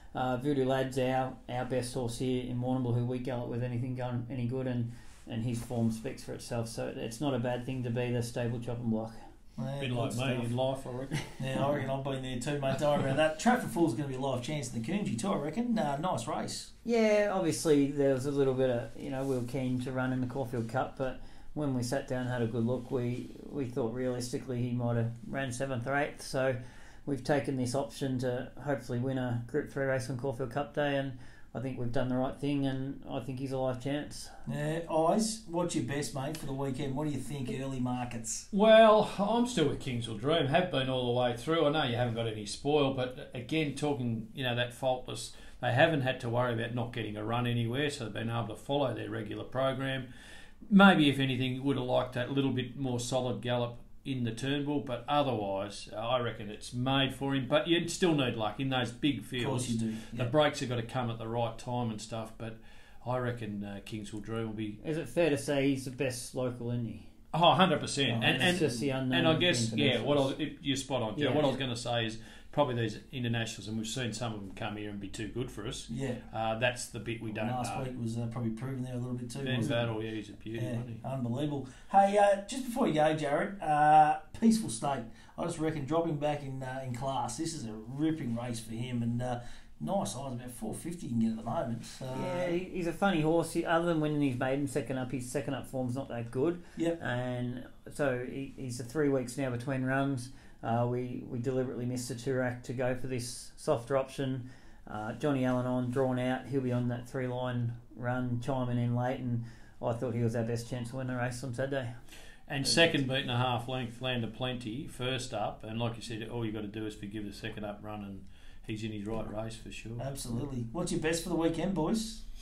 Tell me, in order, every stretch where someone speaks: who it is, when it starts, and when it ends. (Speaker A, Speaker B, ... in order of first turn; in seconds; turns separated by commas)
Speaker A: 0.1-9.2, Speaker B: 9.6-10.5, Speaker C: 9.8-11.2, Speaker B: 11.4-16.7, Speaker A: 16.9-34.3, Speaker B: 34.5-38.5, Speaker C: 38.5-50.1, Speaker C: 50.7-64.8, Speaker B: 59.4-60.3, Speaker A: 64.8-67.1, Speaker C: 67.3-77.9, Speaker B: 68.1-68.8, Speaker A: 68.2-70.3, Speaker A: 71.2-71.6, Speaker B: 75.9-76.2, Speaker B: 77.3-79.9, Speaker C: 79.4-81.0, Speaker B: 80.5-92.6, Speaker A: 92.1-111.9, Speaker C: 112.5-120.0, Speaker B: 112.6-112.9, Speaker B: 120.0-122.2